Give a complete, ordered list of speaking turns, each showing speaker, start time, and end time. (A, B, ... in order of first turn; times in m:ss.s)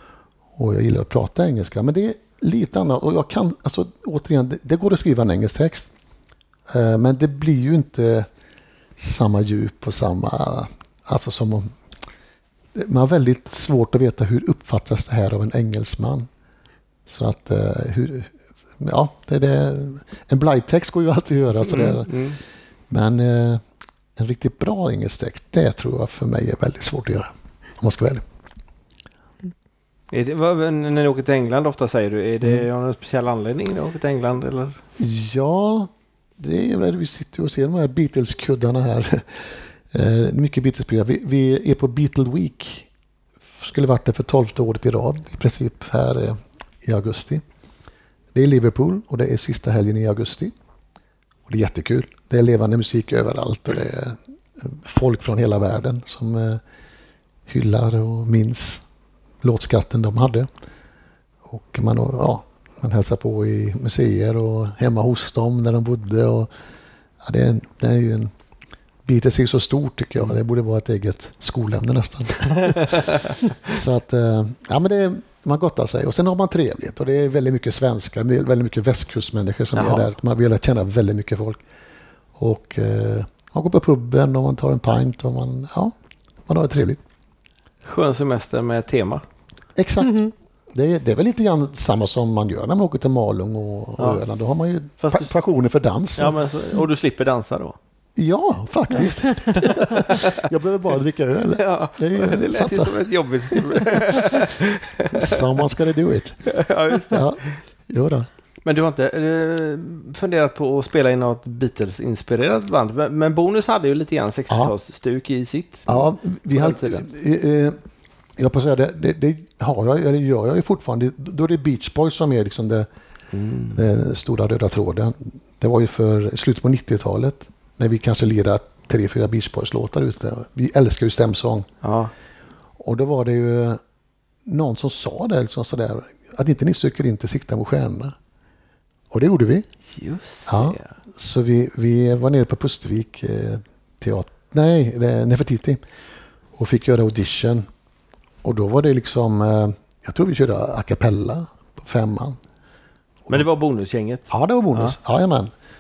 0:00.6-0:05.9 A
0:06.7-0:08.3 A
0:09.0-0:11.7 A
0:12.7-0:16.3 A
0:17.1-0:22.2 A
0:21.6-0:22.4 B
0:22.9-0:23.6 A
0:24.2-0:28.2 A
0:30.1-0:34.8 B
0:35.0-0:42.9 A
0:43.6-0:47.4 A
0:48.3-0:50.5 A
0:51.5-0:56.6 A
0:57.5-0:58.8 A
0:59.4-1:00.5 A
1:01.5-1:06.5 A
1:07.2-1:08.3 A
1:09.0-1:21.6 A
1:12.6-1:13.4 B
1:19.8-1:20.1 B
1:22.4-1:25.9 A
1:26.5-1:27.0 A
1:27.8-1:29.2 B
1:29.8-1:36.4 A
1:35.0-1:35.3 B
1:36.2-1:37.8 B
1:38.2-1:44.4 A
1:39.6-1:40.4 B
1:41.5-1:45.4 B
1:45.1-1:46.4 A
1:46.5-1:47.6 B
1:47.1-1:48.3 A
1:48.6-1:57.1 B
1:55.9-1:57.8 A
1:58.4-2:02.9 A
2:03.3-2:03.8 B
2:03.7-2:11.7 A
2:11.8-2:12.1 B
2:12.8-2:13.8 A
2:14.5-2:18.2 A
2:19.1-2:19.7 A
2:19.9-2:21.0 B
2:20.5-2:25.8 A
2:26.6-2:27.7 A
2:28.4-2:32.4 A
2:33.3-2:35.0 B
2:34.3-2:35.5 A